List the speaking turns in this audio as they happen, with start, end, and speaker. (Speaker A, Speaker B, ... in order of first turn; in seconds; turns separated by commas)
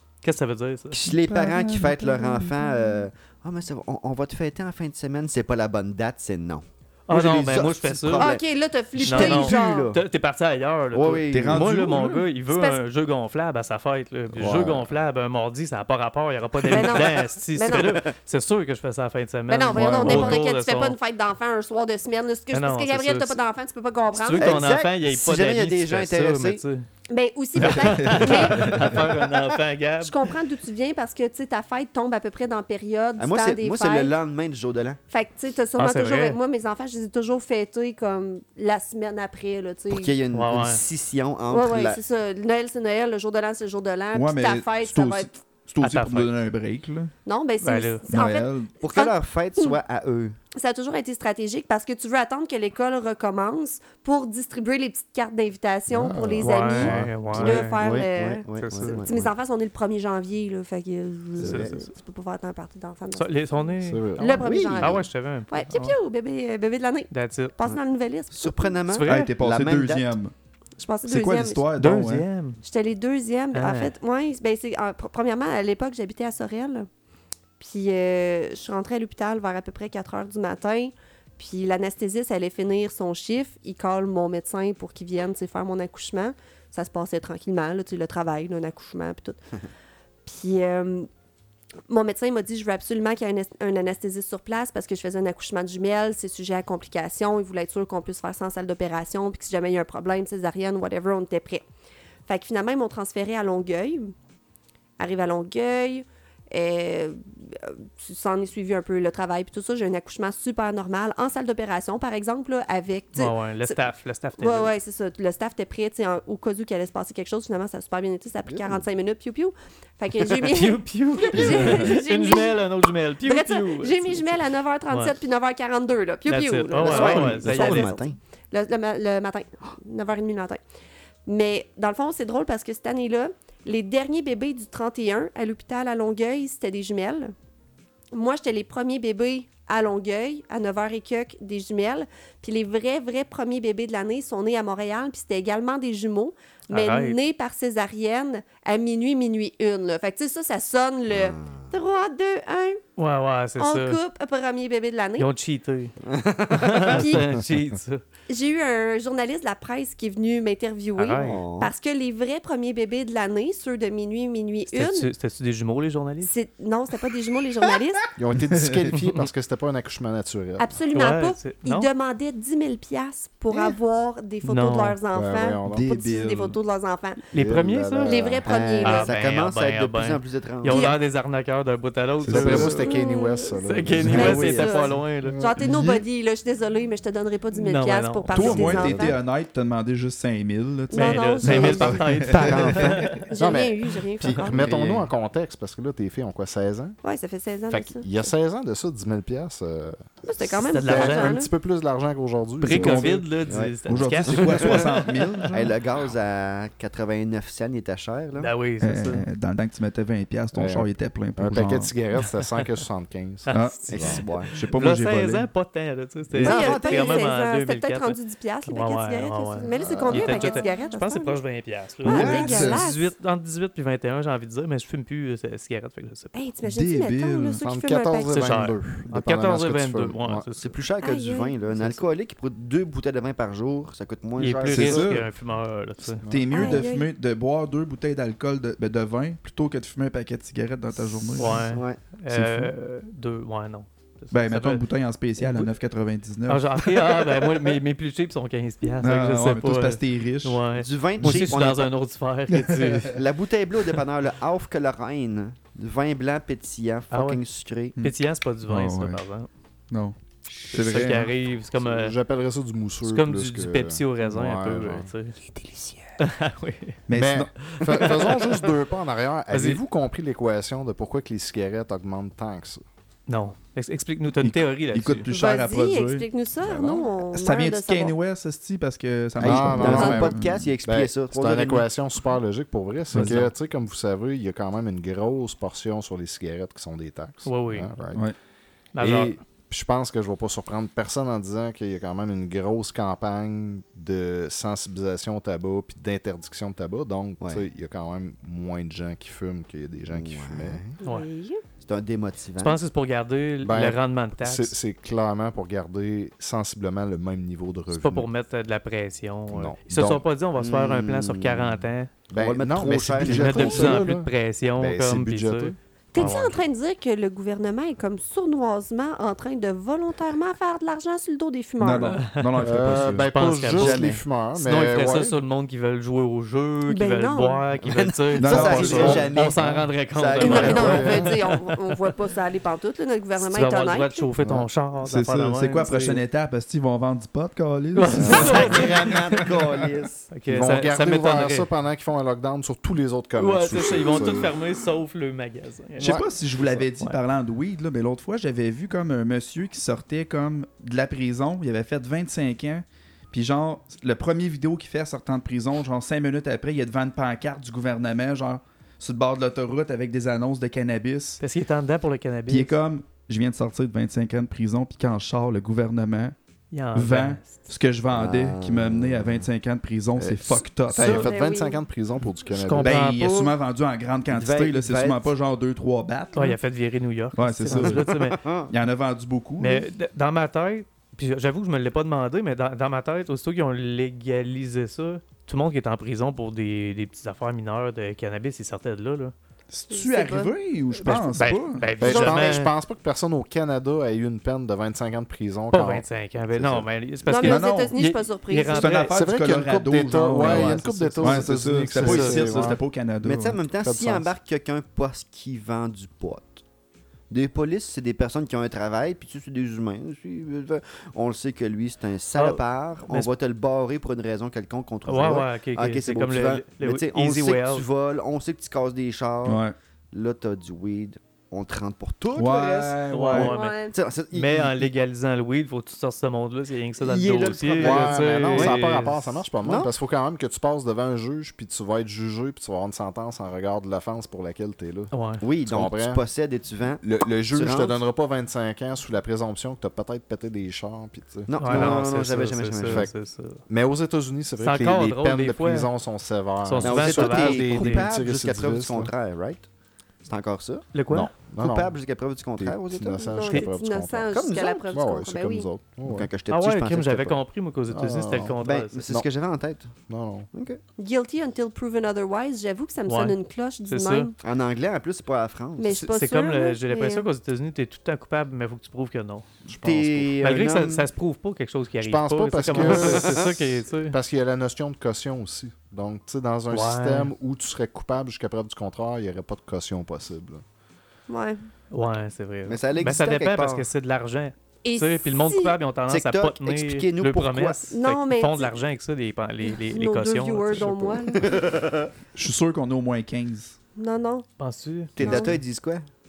Speaker A: 0.2-1.0, Speaker B: 0.9-8.4, Speaker C: 1.1-3.0, Speaker A: 7.1-8.4, Speaker D: 8.2-9.9, Speaker B: 8.9-10.0, Speaker A: 9.0-20.9, Speaker B: 10.9-11.8, Speaker C: 11.3-12.2, Speaker D: 12.5-12.8, Speaker E: 14.3-14.9, Speaker D: 16.7-18.1, Speaker B: 17.7-18.1, Speaker D: 19.5-24.6, Speaker C: 19.7-20.4, Speaker A: 22.5-23.4, Speaker A: 24.1-26.9, Speaker B: 24.4-26.6, Speaker D: 27.1-29.0, Speaker A: 27.6-30.3, Speaker C: 27.6-29.1, Speaker D: 30.0-34.1, Speaker B: 33.2-35.0, Speaker D: 35.1-40.1, Speaker A: 35.8-36.4, Speaker B: 39.9-42.0, Speaker A: 40.3-40.8, Speaker D: 41.5-45.4, Speaker C: 44.1-47.1, Speaker A: 45.8-46.3, Speaker D: 47.3-49.8, Speaker A: 47.6-48.0, Speaker C: 48.1-48.7, Speaker B: 48.8-50.4, Speaker D: 50.5-68.8, Speaker E: 55.9-57.6, Speaker A: 56.4-57.8, Speaker B: 57.3-59.3, Speaker A: 58.6-59.0, Speaker A: 61.4-61.9, Speaker A: 63.1-66.0, Speaker E: 63.8-64.4, Speaker B: 64.4-65.0, Speaker A: 67.1-67.5, Speaker B: 68.3-70.1, Speaker A: 68.9-69.3, Speaker C: 69.1-70.3, Speaker D: 70.8-71.7, Speaker C: 71.0-72.3, Speaker A: 71.8-72.6, Speaker D: 72.6-76.9, Speaker A: 73.5-74.0, Speaker D: 77.6-89.4, Speaker D: 90.2-91.1, Speaker D: 91.9-101.6, Speaker D: 102.3-104.1, Speaker D: 105.0-113.8, Speaker A: 113.1-114.7, Speaker D: 114.4-122.6, Speaker B: 118.5-118.8, Speaker A: 120.5-124.4, Speaker D: 123.2-130.6, Speaker A: 126.3-128.0, Speaker B: 126.7-128.2, Speaker D: 131.3-137.3, Speaker D: 138.1-152.8, Speaker A: 146.7-147.2, Speaker B: 151.1-151.6, Speaker A: 153.0-154.0, Speaker D: 153.6-155.3, Speaker A: 155.2-155.9, Speaker B: 156.0-157.2, Speaker A: 156.5-158.0, Speaker D: 156.7-157.3, Speaker D: 158.3-165.1, Speaker A: 161.0-161.4, Speaker B: 161.2-161.7, Speaker A: 164.7-166.3, Speaker D: 166.2-168.1, Speaker E: 168.2-170.8, Speaker C: 168.5-169.1, Speaker D: 170.6-177.2, Speaker A: 170.9-171.9, Speaker A: 174.4-175.0, Speaker E: 175.1-175.9, Speaker C: 175.7-176.6, Speaker A: 177.3-178.2, Speaker E: 177.3-178.5, Speaker D: 178.0-179.1, Speaker B: 178.4-180.9, Speaker A: 178.8-182.9, Speaker D: 180.6-181.0, Speaker C: 182.2-182.8, Speaker E: 182.3-185.7, Speaker D: 182.6-189.2, Speaker A: 183.6-185.5, Speaker C: 183.9-184.4, Speaker B: 184.2-184.6, Speaker C: 185.6-186.0, Speaker A: 187.5-188.9, Speaker C: 188.3-193.1, Speaker D: 190.9-192.0, Speaker A: 190.9-193.2, Speaker B: 192.3-193.2, Speaker D: 193.3-194.6, Speaker E: 193.3-196.9, Speaker B: 194.4-195.1, Speaker D: 197.0-198.1, Speaker E: 197.7-200.0, Speaker D: 200.2-201.5, Speaker A: 200.5-201.4, Speaker E: 200.8-203.1, Speaker A: 202.6-205.4, Speaker C: 202.7-205.7, Speaker B: 203.5-208.5, Speaker A: 208.4-209.3, Speaker C: 208.8-211.9, Speaker E: 210.5-214.2, Speaker A: 213.5-226.3, Speaker C: 213.5-213.9, Speaker B: 213.9-214.5, Speaker C: 214.5-215.5, Speaker B: 216.4-217.3, Speaker D: 216.4-221.4, Speaker E: 219.8-220.6, Speaker D: 222.0-223.1, Speaker B: 222.0-222.8, Speaker C: 222.4-222.8, Speaker D: 226.3-228.6, Speaker C: 226.6-227.6, Speaker E: 227.6-230.5, Speaker A: 228.3-230.7, Speaker B: 230.6-235.2, Speaker D: 231.0-231.5, Speaker A: 234.4-236.2, Speaker C: 234.7-235.3, Speaker E: 236.2-236.8, Speaker C: 236.3-241.7, Speaker D: 236.5-237.1, Speaker B: 241.2-242.0, Speaker A: 241.4-244.8, Speaker C: 242.3-242.7, Speaker C: 244.3-247.1, Speaker A: 245.4-245.7, Speaker A: 246.5-253.2, Speaker C: 249.0-250.6, Speaker B: 250.7-251.9, Speaker C: 252.5-253.2, Speaker B: 253.1-258.0, Speaker A: 257.1-257.4, Speaker A: 258.0-259.5, Speaker C: 258.7-259.2, Speaker B: 260.5-261.2, Speaker C: 260.7-261.3, Speaker A: 260.7-262.2, Speaker E: 261.8-265.1, Speaker A: 263.0-265.4, Speaker B: 265.6-266.1, Speaker A: 266.2-267.0, Speaker C: 267.1-267.5, Speaker E: 267.1-272.8, Speaker A: 267.6-268.7, Speaker A: 269.5-269.8, Speaker A: 273.3-275.3, Speaker C: 274.4-276.3, Speaker D: 275.3-278.2, Speaker E: 276.7-277.1, Speaker C: 277.2-280.7, Speaker B: 279.4-281.9, Speaker E: 279.4-288.2, Speaker C: 283.1-283.5, Speaker A: 287.4-287.9, Speaker A: 288.9-289.4, Speaker E: 289.0-300.8, Speaker B: 300.1-300.9, Speaker D: 301.0-301.6, Speaker B: 301.8-302.8, Speaker A: 302.6-304.8, Speaker E: 303.6-308.3, Speaker A: 307.9-312.1, Speaker E: 309.5-310.2, Speaker B: 310.6-314.1, Speaker E: 312.3-316.5, Speaker A: 313.2-316.6, Speaker D: 316.1-322.2, Speaker C: 321.8-323.3, Speaker A: 322.1-331.9, Speaker E: 322.6-325.4, Speaker B: 323.7-324.2, Speaker D: 326.9-327.6, Speaker B: 327.8-331.2, Speaker C: 328.4-329.7, Speaker E: 328.7-329.3, Speaker D: 330.4-334.3, Speaker E: 330.5-331.3, Speaker A: 333.4-336.2, Speaker E: 334.4-334.7, Speaker C: 335.0-339.7, Speaker A: 337.9-339.5, Speaker E: 338.1-338.8, Speaker B: 338.1-340.3, Speaker A: 340.3-341.7, Speaker E: 340.5-344.6, Speaker A: 343.4-346.2, Speaker C: 346.0-361.4, Speaker E: 346.0-346.3, Speaker A: 361.4-362.8, Speaker C: 362.5-366.3, Speaker A: 366.7-367.7, Speaker C: 366.9-371.3, Speaker B: 368.1-369.5, Speaker E: 370.2-373.0, Speaker B: 370.3-370.6, Speaker D: 370.9-371.8, Speaker A: 372.5-373.5, Speaker C: 372.8-376.6, Speaker B: 374.3-375.3, Speaker A: 376.3-378.4, Speaker C: 377.3-378.1, Speaker B: 377.7-378.7, Speaker C: 378.7-379.9, Speaker A: 379.6-389.3, Speaker C: 389.7-392.4, Speaker D: 389.9-390.5, Speaker A: 391.0-392.7, Speaker E: 392.0-396.1, Speaker A: 395.7-399.2, Speaker E: 396.6-396.9, Speaker D: 397.3-399.0, Speaker C: 397.3-398.0, Speaker C: 398.7-403.6, Speaker E: 399.1-402.8, Speaker A: 400.3-402.7, Speaker B: 402.1-406.6, Speaker E: 403.7-404.3, Speaker B: 407.3-424.9, Speaker A: 412.3-413.3, Speaker A: 415.1-417.9, Speaker C: 419.4-419.7, Speaker C: 422.3-423.5, Speaker A: 423.1-423.8, Speaker D: 423.3-423.9, Speaker A: 424.3-429.4, Speaker B: 427.0-429.0, Speaker E: 427.8-435.1, Speaker B: 429.6-429.9, Speaker A: 435.1-435.4, Speaker B: 435.4-438.0, Speaker E: 435.6-436.2, Speaker E: 437.0-442.0, Speaker B: 441.5-443.1, Speaker A: 441.6-443.6, Speaker E: 442.8-443.1, Speaker E: 443.7-449.1, Speaker A: 444.6-445.9, Speaker A: 446.6-448.1, Speaker B: 446.8-449.7, Speaker B: 450.2-450.9, Speaker A: 450.9-451.3, Speaker E: 451.1-452.0, Speaker B: 451.6-453.3, Speaker E: 452.6-454.4, Speaker D: 453.2-455.7, Speaker B: 454.3-454.9, Speaker E: 454.9-456.3, Speaker B: 456.1-457.4, Speaker A: 456.5-459.0, Speaker E: 457.9-458.6, Speaker B: 458.6-459.9, Speaker E: 460.1-460.5, Speaker B: 460.5-460.8, Speaker D: 461.0-464.3, Speaker A: 463.1-463.4, Speaker A: 463.9-464.3, Speaker B: 464.4-466.0, Speaker D: 465.8-467.3, Speaker A: 465.9-469.4, Speaker E: 469.6-470.4, Speaker B: 469.8-471.1, Speaker A: 470.4-474.2, Speaker E: 472.0-480.6, Speaker B: 472.7-473.5, Speaker A: 476.7-477.3, Speaker D: 481.3-481.6, Speaker A: 481.9-491.3, Speaker B: 482.7-483.9, Speaker D: 484.8-485.8, Speaker B: 486.1-487.9, Speaker D: 487.9-488.7, Speaker D: 489.6-491.6, Speaker B: 491.3-492.1, Speaker C: 492.3-493.8, Speaker D: 493.9-494.4, Speaker A: 494.6-495.5, Speaker B: 495.2-496.1, Speaker D: 495.2-495.6